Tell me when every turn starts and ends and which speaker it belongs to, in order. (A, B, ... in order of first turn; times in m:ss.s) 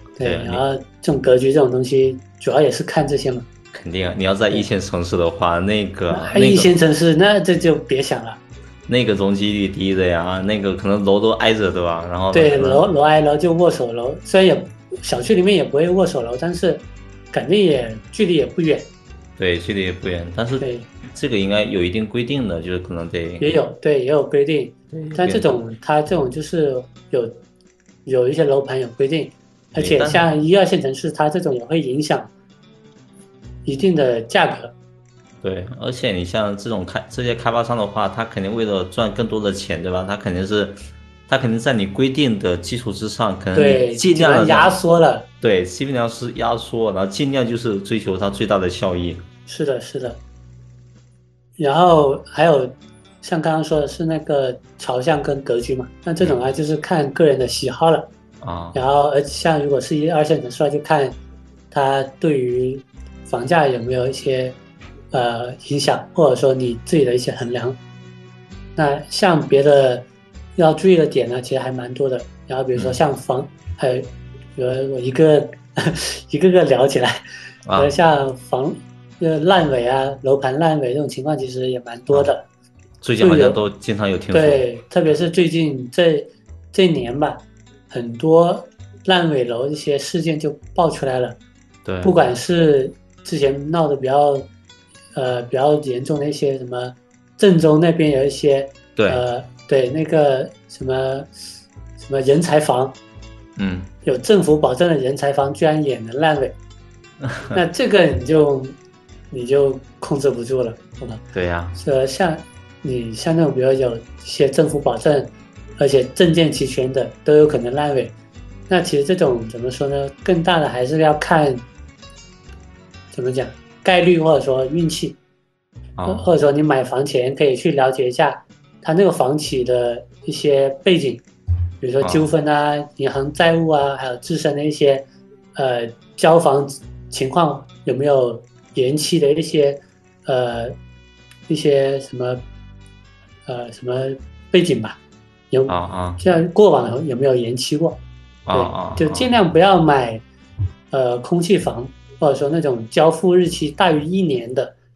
0:00.2-0:03.4 A
0:00.2-0:00.6 B
0:03.7-0:06.7 B
0:06.1-0:08.4 A
0:08.9-0:12.9 B
0:12.3-0:18.9 A
0:19.4-0:23.5 B
0:20.6-0:20.9 A
0:23.4-0:27.4 A
0:24.9-0:25.6 B
0:28.0-0:32.3 A
0:29.8-0:30.3 B
0:33.6-0:34.7 A
0:35.4-0:44.8 B
0:43.5-0:45.3 A
0:45.4-0:49.2 B
0:49.5-0:50.2 A
0:51.6-0:58.1 A
0:58.4-0:58.8 B
0:58.7-1:01.2 A
1:01.7-1:04.6 A
1:05.1-1:07.8 A
1:08.8-1:10.0 A
1:10.6-1:17.2 A
1:17.6-1:17.9 B
1:17.7-1:22.5 A
1:23.0-1:24.6 B
1:23.2-1:23.6 A
1:24.3-1:31.4 A
1:31.8-1:32.2 B
1:32.0-1:34.5 A
1:35.1-1:41.3 A
1:39.0-1:39.2 B
1:42.0-1:43.0 A
1:43.6-1:43.9 B
1:44.0-1:46.6 A
1:47.2-1:47.6 B
1:47.5-1:48.8 A
1:49.3-1:51.2 A
1:51.3-1:51.8 B
1:51.8-1:58.1 A
1:58.7-2:01.6 A
2:03.1-2:05.2 A
2:06.0-2:06.2 B
2:06.0-2:11.2 A
2:11.8-2:20.8 A
2:12.0-2:12.3 B
2:21.5-2:22.4 A
2:23.4-2:25.0 A
2:25.5-2:28.0 A
2:25.7-2:26.2 B
2:28.5-2:29.3 B
2:28.5-2:30.2 A
2:30.9-2:34.7 A